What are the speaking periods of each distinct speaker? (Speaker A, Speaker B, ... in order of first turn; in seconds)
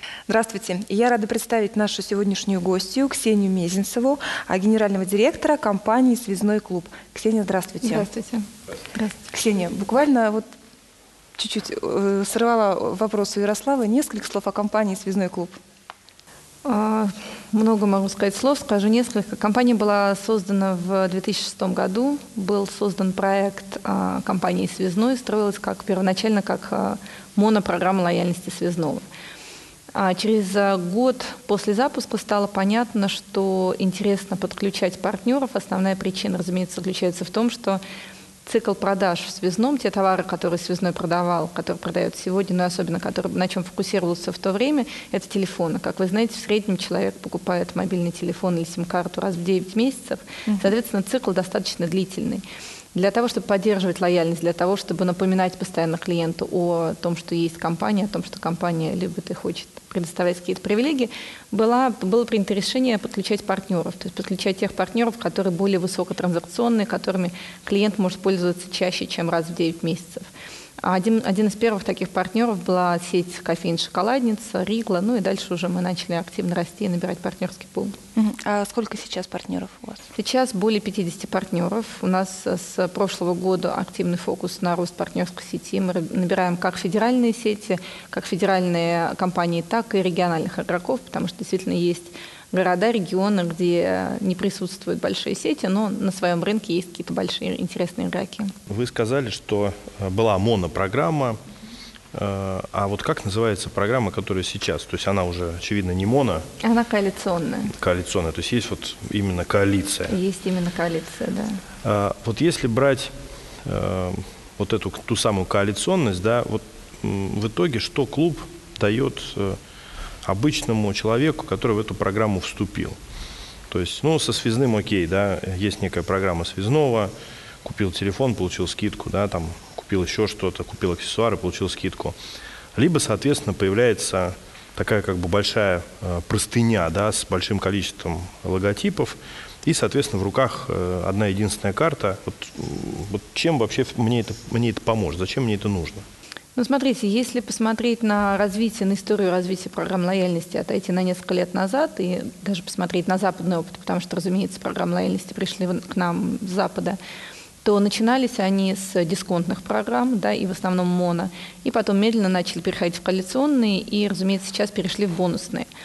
Speaker A: 0.3-8.1, 9.3-10.4, 11.4-15.6, 78.1-80.1
Speaker B: 7.8-9.2, 16.6-29.0, 29.9-37.8, 38.4-52.4, 53.0-70.2, 70.8-78.0, 80.1-98.5, 106.6-107.7, 110.1-111.6, 146.6-157.0, 157.6-165.7
Speaker C: 98.7-101.4, 102.1-106.4, 107.7-110.1, 111.8-119.6, 120.2-123.0, 123.7-127.1, 127.6-132.2, 132.8-146.1